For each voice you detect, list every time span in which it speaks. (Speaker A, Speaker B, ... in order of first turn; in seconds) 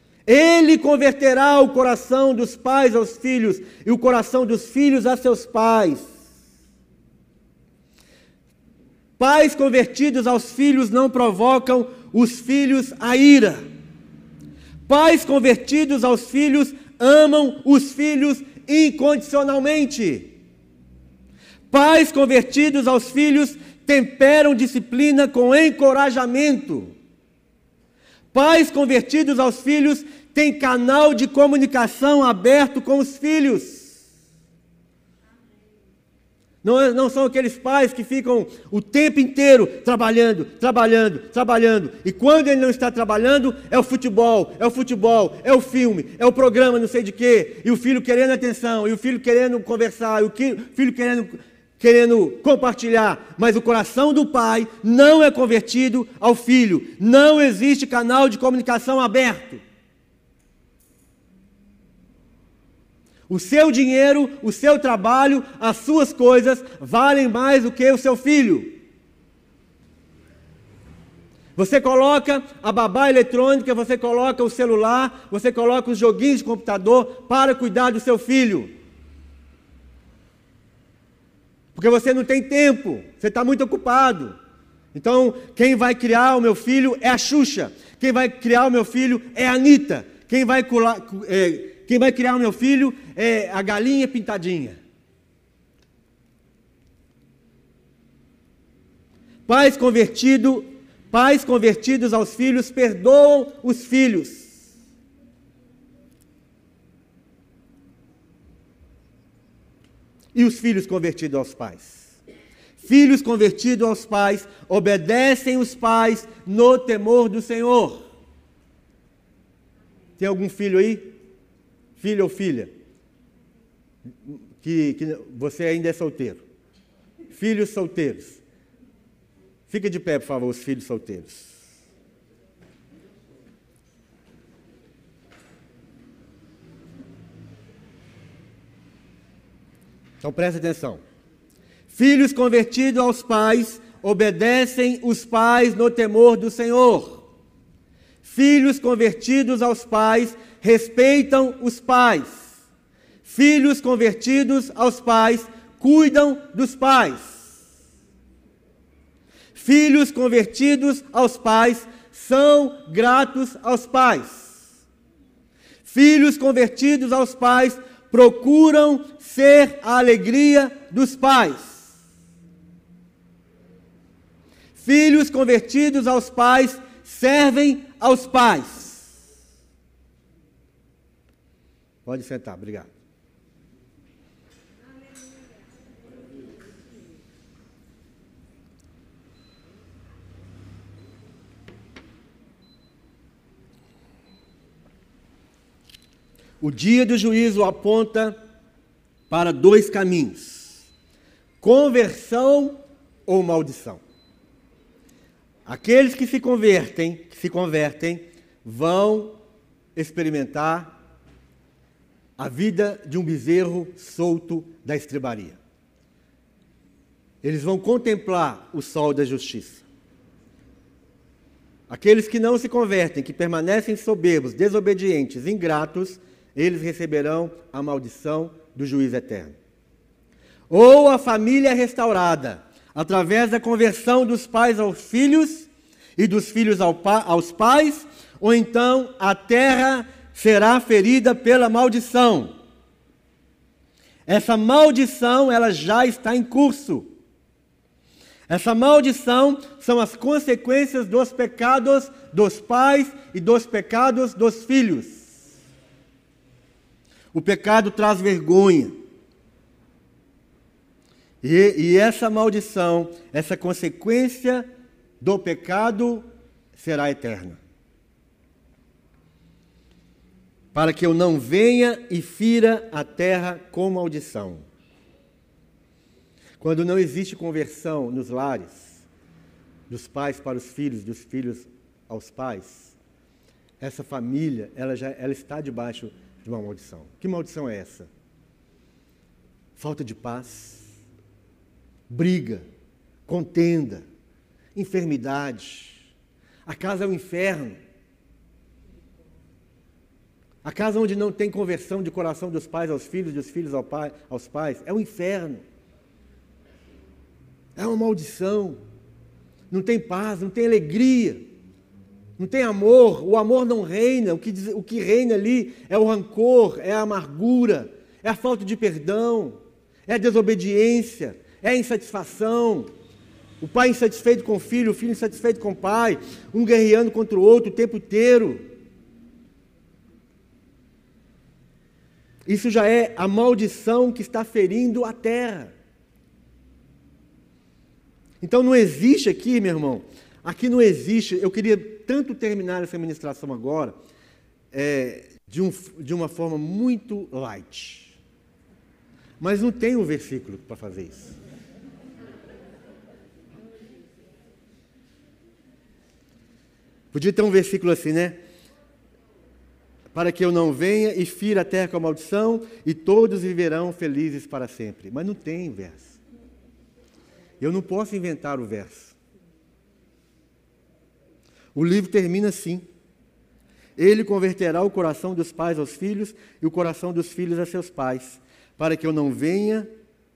Speaker A: 0.3-6.1, 9.2-13.6, 14.9-20.3, 21.7-26.9, 28.3-34.0, 36.6-59.6, 63.3-68.8, 71.6-78.7, 81.7-84.3, 84.9-94.8, 99.5-104.6, 110.3-112.2, 112.8-118.0, 120.2-121.1, 122.0-122.7, 124.2-126.4, 127.3-128.4, 129.7-131.6, 140.2-141.0, 141.9-147.3, 148.2-152.5, 153.2-157.5, 159.6-164.6, 165.8-171.9, 174.8-179.1, 182.1-182.9, 196.6-198.4, 199.3-200.8, 201.6-204.0, 205.7-209.4, 210.0-210.9, 212.4-215.6, 217.4-219.8, 221.9-229.6, 230.7-242.5, 244.3-247.1, 248.5-255.3, 257.3-258.9, 261.4-264.7, 265.2-267.6, 270.7-274.6, 276.6-279.0, 279.9-283.0, 283.8-288.1, 289.8-290.9, 292.1-292.6, 293.3-294.0, 294.8-296.1, 296.7-297.8, 300.6-305.6, 307.8-308.8, 309.7-311.4, 312.4-322.9, 323.6-328.6, 332.5-335.7, 338.4-343.9, 344.7-348.2, 349.4-351.4, 357.1-358.4, 360.1-366.2, 367.6-369.2, 371.8-372.9, 374.0-379.9